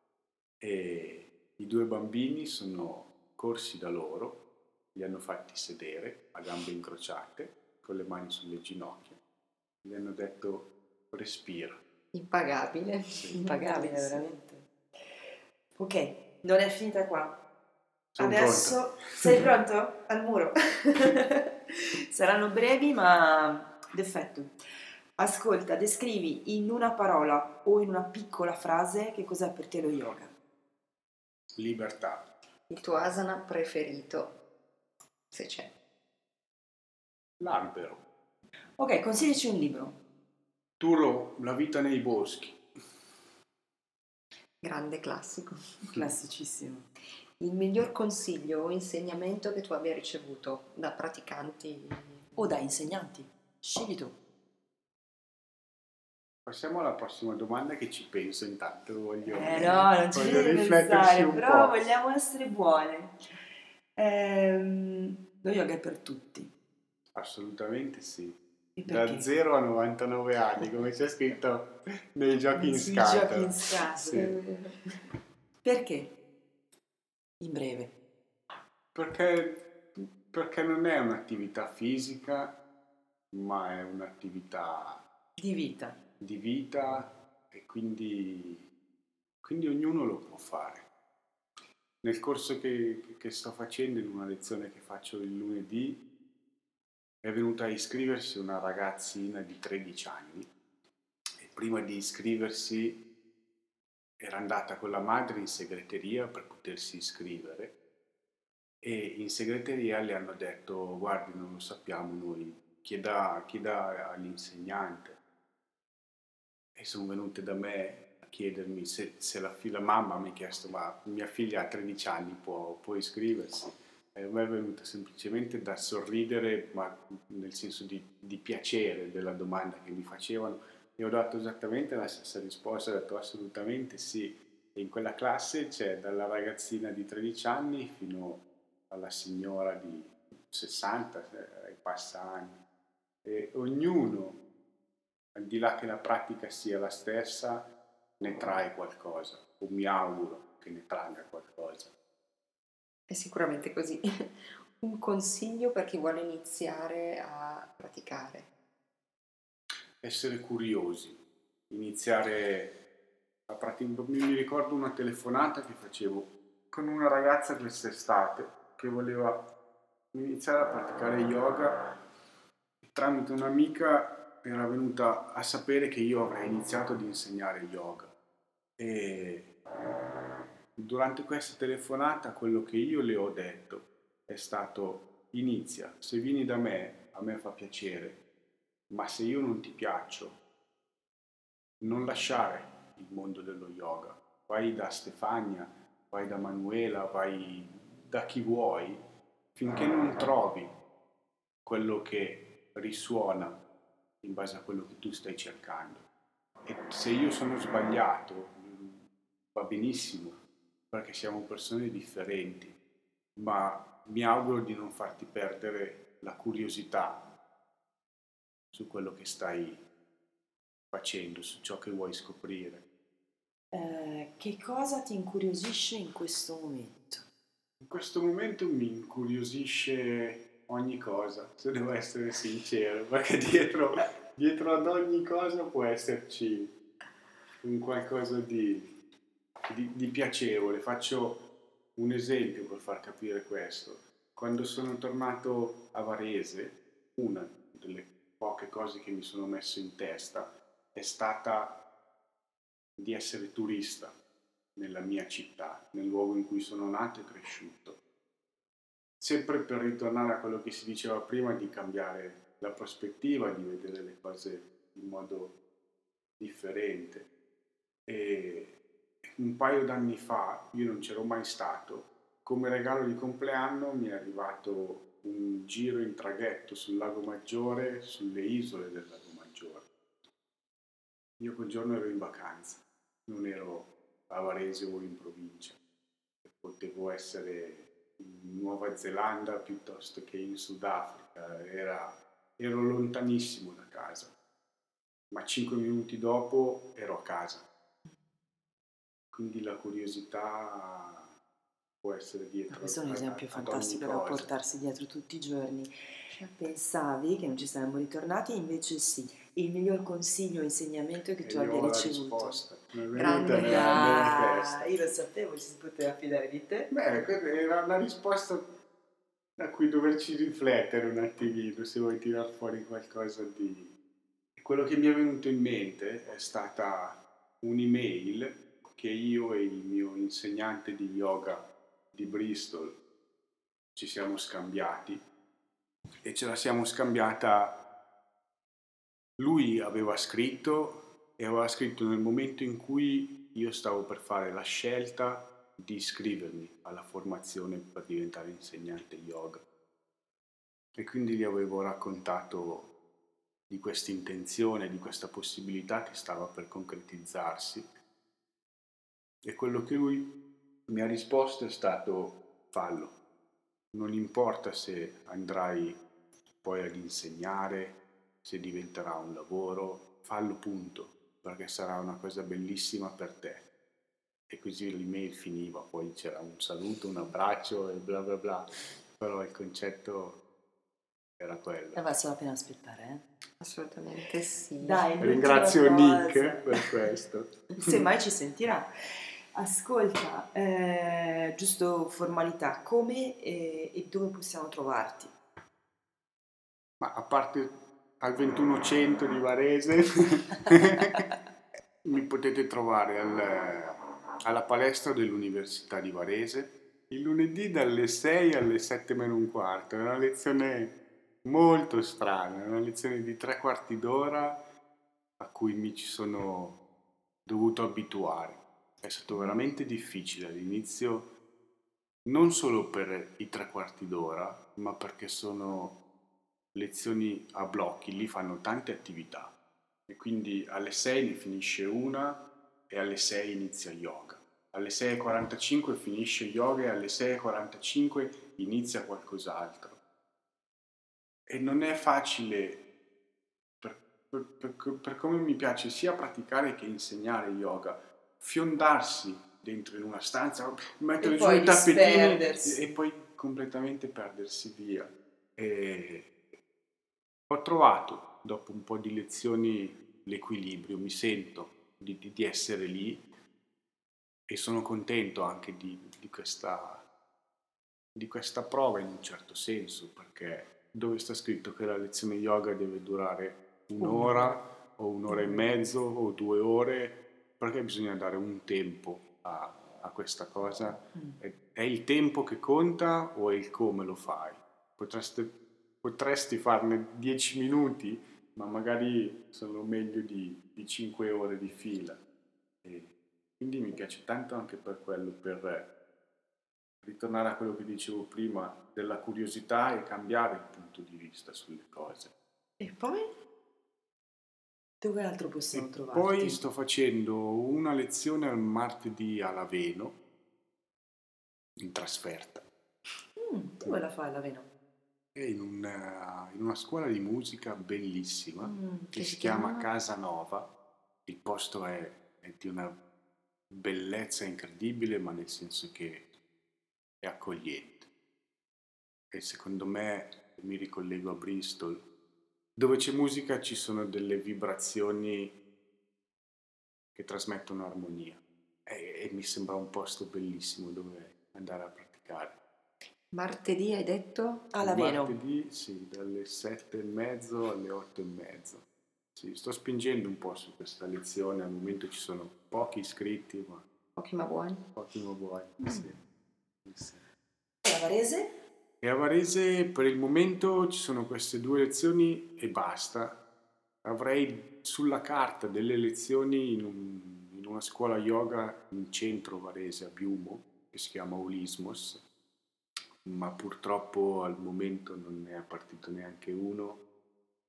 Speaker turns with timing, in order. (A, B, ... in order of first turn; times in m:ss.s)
0:00.6-0:04.4 A
0:04.9-0:09.2 A
0:09.8-0:11.8 A
0:12.1-0:14.3 B
0:13.1-0:13.4 A
0:13.3-0:17.4 C
0:18.2-0:19.5 A
0:18.2-0:24.5 C
0:25.2-0:30.3 C
0:31.6-0:32.3 A
0:32.7-0:34.4 B
0:35.3-0:35.7 B
0:37.4-0:38.0 A
0:38.8-0:40.0 C
0:40.8-0:42.6 A
0:44.6-0:45.6 B
0:45.9-0:46.9 C
0:47.4-0:52.3 B
0:52.4-0:54.2 C
0:56.4-1:01.9 A
0:59.3-1:03.4 C
1:04.0-1:06.5 C
1:07.1-1:14.4 A
1:08.8-1:09.3 C
1:12.5-1:14.2 C
1:14.1-1:14.7 B
1:15.6-1:16.2 C
1:17.4-1:17.9 C
1:18.9-1:22.6 A
1:23.3-1:25.0 A
1:25.4-1:26.0 C
1:26.2-1:28.7 A
1:29.4-1:30.9 A
1:32.0-1:36.0 A
1:37.2-1:40.5 A
1:41.4-1:43.0 A
1:44.2-1:47.8 A
1:48.8-1:55.2 A
1:56.7-2:22.6 A
2:23.2-2:24.4 A
2:25.3-2:31.9 A
2:33.1-2:38.5 B
2:40.0-2:42.8 A
2:43.5-2:49.5 A
2:50.1-2:51.9 A
2:52.8-2:58.1 A
2:58.8-2:59.5 A
3:00.8-3:08.2 A
3:08.9-3:10.4 A
3:11.8-3:19.0 A
3:19.5-3:20.7 A
3:21.6-3:23.6 A
3:24.2-3:26.1 A
3:26.6-3:32.8 A
3:33.4-3:37.3 A
3:38.7-3:39.8 A
3:40.9-3:42.8 A
3:43.7-3:47.2 C
3:47.8-3:56.7 A
3:57.6-3:58.9 A
3:59.7-4:01.4 A
4:02.0-4:11.8 A
4:13.0-4:14.1 A
4:14.8-4:18.0 A
4:19.2-4:25.6 A
4:26.4-4:27.3 A
4:28.1-4:39.9 A
4:41.4-4:45.8 A
4:46.4-4:54.3 A
4:55.3-4:57.6 A
4:59.3-5:01.3 A
5:02.0-5:04.5 A
5:02.7-5:12.6 C
5:06.3-5:06.6 B
5:11.4-5:15.1 A
5:13.1-5:14.2 B
5:13.2-5:16.9 C
5:16.9-5:18.7 A
5:19.6-5:23.9 A
5:24.6-5:33.0 A
5:33.9-5:35.2 A
5:36.2-5:37.8 A
5:39.4-5:49.6 A
5:50.9-5:52.9 A
5:53.7-5:57.9 A
5:59.4-6:03.2 A
6:03.9-6:06.0 A
6:06.6-6:13.7 A
6:14.5-6:20.4 A
6:21.4-6:22.0 A
6:21.9-6:23.2 C
6:23.6-6:25.1 B
6:24.8-6:27.0 C
6:25.2-6:28.0 A
6:27.8-6:35.3 C
6:37.0-6:41.3 A
6:42.0-6:54.6 A
6:55.4-6:56.8 A
6:57.4-7:01.3 A
7:02.2-7:06.0 A
7:06.7-7:09.6 A
7:10.1-7:20.0 A
7:21.5-7:22.8 A
7:23.8-7:36.4 A
7:31.2-7:32.8 C
7:37.5-7:43.2 A
7:44.5-7:47.1 A
7:48.1-8:12.2 A
7:54.0-7:54.6 C
7:55.3-7:55.9 C
8:01.1-8:01.4 C
8:12.8-8:15.9 A
8:17.0-8:22.3 A
8:22.8-8:23.4 C
8:25.0-8:26.6 C
8:25.7-8:30.2 A
8:31.8-8:32.6 A
8:33.4-8:34.7 C
8:35.3-8:40.7 A
8:38.6-8:39.2 C
8:39.2-8:39.9 B
8:41.2-8:43.0 A
8:43.7-8:46.3 A
8:47.2-8:48.1 A
8:49.3-8:52.0 A
8:52.8-8:55.6 A
8:57.1-9:02.6 A
9:03.3-9:04.7 B
9:04.7-9:05.4 C
9:04.8-9:08.8 A
9:09.3-9:13.8 A
9:14.2-9:14.8 B
9:15.0-9:16.2 A
9:15.8-9:16.1 C
9:16.8-9:17.2 A
9:17.8-9:18.6 C
9:19.0-9:23.4 A
9:24.0-9:32.2 A
9:33.2-9:37.0 A